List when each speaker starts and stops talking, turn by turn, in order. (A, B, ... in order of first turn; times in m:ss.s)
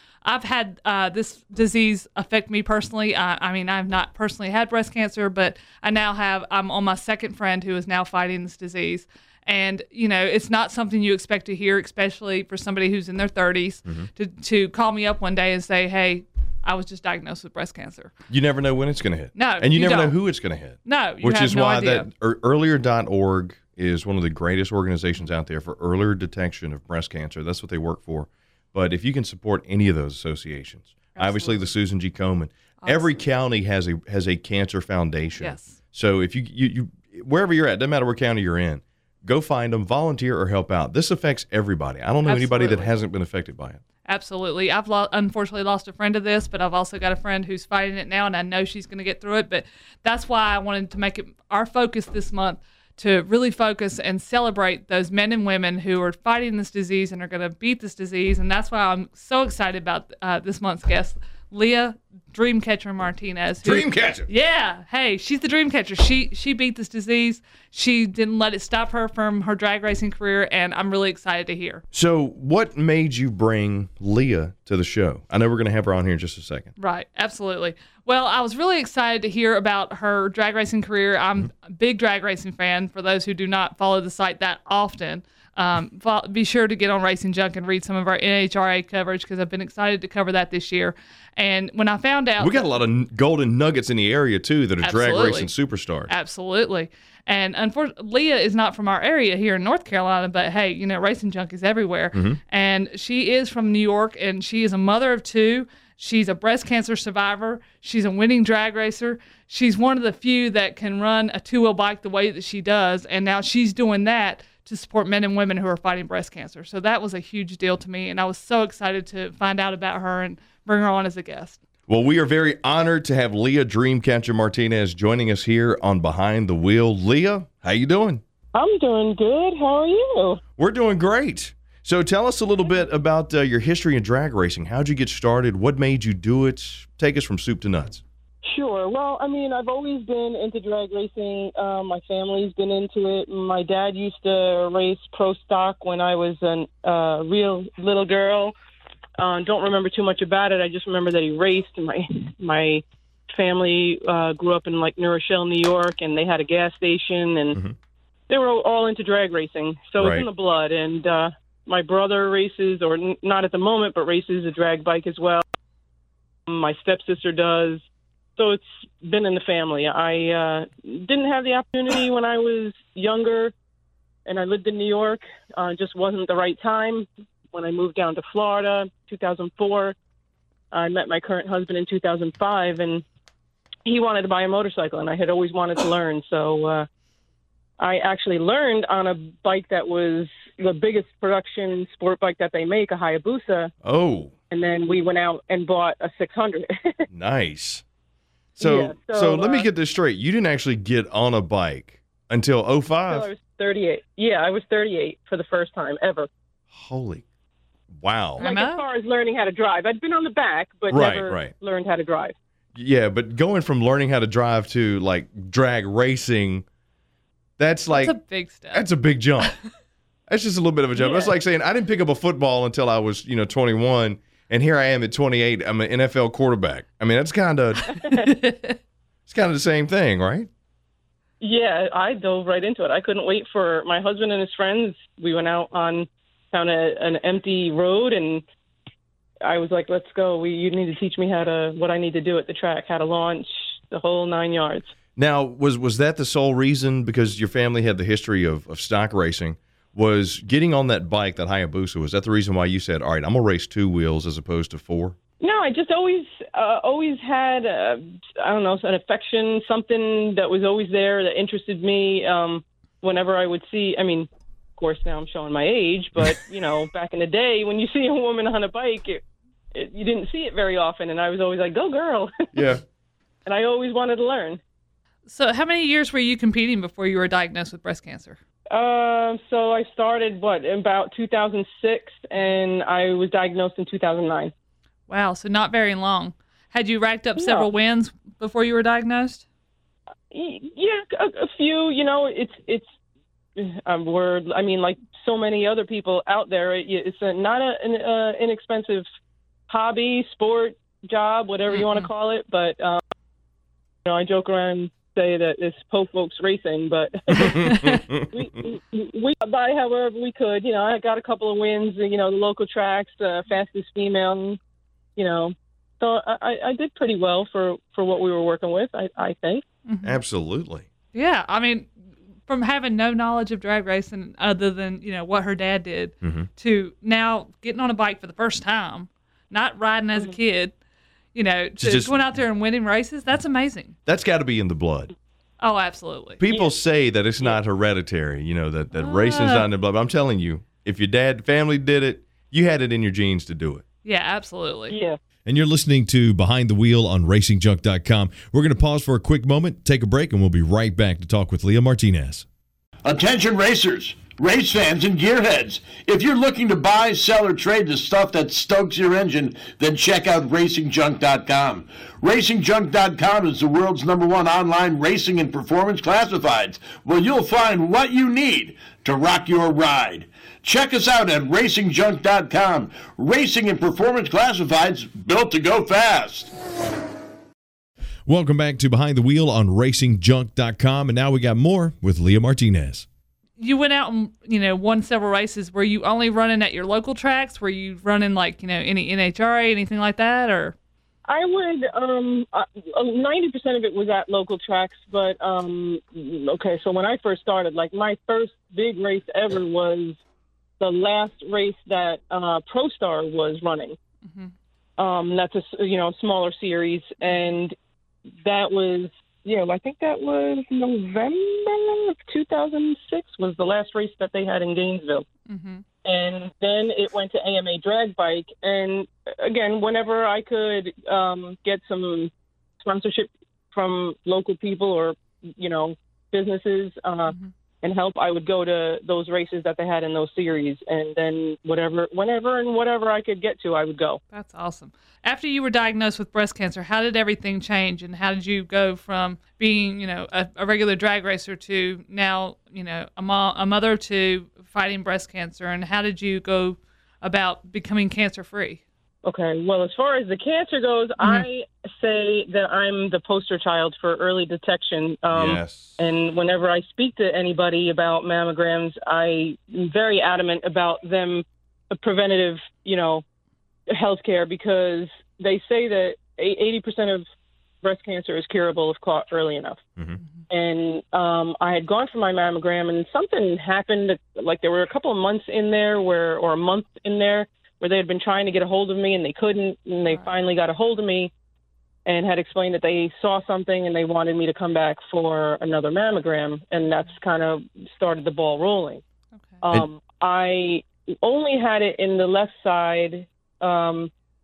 0:00.2-0:18.1 A
0:18.3-0:43.8 B
0:19.4-0:20.2 A
0:20.8-0:22.1 A
0:31.2-0:31.7 A
0:32.8-0:33.2 A
0:35.4-0:35.8 A
0:42.2-0:42.9 A
0:44.0-1:11.8 A
1:03.6-1:04.3 B
1:11.9-1:16.7 B
1:16.8-1:32.6 A
1:32.4-1:36.1 B
1:34.8-1:35.5 A
1:36.1-2:01.6 A
1:42.1-1:42.4 B
2:01.9-2:08.2 B
2:08.5-2:10.4 C
2:10.6-2:18.0 B
2:18.4-2:28.5 C
2:29.2-2:37.6 C
2:38.3-2:45.4 C
2:40.0-2:40.2 B
2:46.5-2:47.8 C
2:48.4-2:53.5 C
2:54.2-3:00.0 C
3:00.7-3:03.0 C
3:03.8-3:06.9 C
3:07.8-3:13.7 C
3:13.8-3:14.3 B
3:14.5-3:17.0 C
3:17.1-3:17.8 B
3:18.6-3:23.3 B
3:18.6-3:19.7 C
3:23.1-3:26.3 C
3:26.7-3:27.2 B
3:27.9-3:28.4 B
3:28.4-3:32.4 C
3:28.4-3:28.8 A
3:30.9-3:31.5 B
3:32.8-3:36.6 B
3:37.6-3:38.2 B
3:37.9-3:38.8 A
3:38.7-3:39.5 B
3:40.3-3:48.3 B
3:48.1-3:48.8 A
3:49.3-3:50.5 B
3:51.4-3:58.4 C
3:59.4-4:04.9 C
4:05.2-4:15.2 B
4:15.4-4:29.2 C
4:29.7-4:32.4 C
4:32.5-4:32.8 B
4:33.5-4:34.6 C
4:35.2-4:38.4 A
4:38.7-4:44.5 C
4:45.1-4:49.4 A
4:47.4-4:47.7 C
4:50.3-4:52.9 C
4:53.6-4:59.0 C
4:59.7-5:03.0 C
5:01.7-5:02.1 A
5:04.0-5:14.6 C
5:07.3-5:08.3 B
5:07.6-5:08.0 A
5:15.2-5:19.6 C
5:19.9-5:20.2 A
5:20.0-5:20.9 B
5:21.1-5:21.9 A
5:22.5-5:30.8 A
5:26.2-5:26.5 B
5:31.3-5:34.0 A
5:31.8-5:32.2 B
5:34.0-5:35.1 B
5:35.6-5:36.4 A
5:36.4-5:43.8 B
5:38.9-5:39.7 A
5:44.0-5:45.0 A
5:44.9-5:45.2 C
5:45.5-5:52.5 B
5:53.0-6:16.5 D
6:18.2-6:23.1 B
6:23.6-6:30.8 A
6:31.2-6:40.2 C
6:40.8-6:44.0 C
6:44.2-6:44.5 A
6:45.0-6:47.8 C
6:48.4-6:55.3 C
6:55.5-6:55.8 A
6:56.0-7:02.3 C
7:02.8-7:14.2 C
7:14.3-7:28.8 A
7:29.2-7:43.2 C
7:31.2-7:31.5 A
7:35.3-7:36.0 B
7:43.9-7:47.2 C
7:47.8-7:49.8 C
7:50.5-8:01.3 C
8:02.0-8:09.0 C
8:09.6-8:14.1 C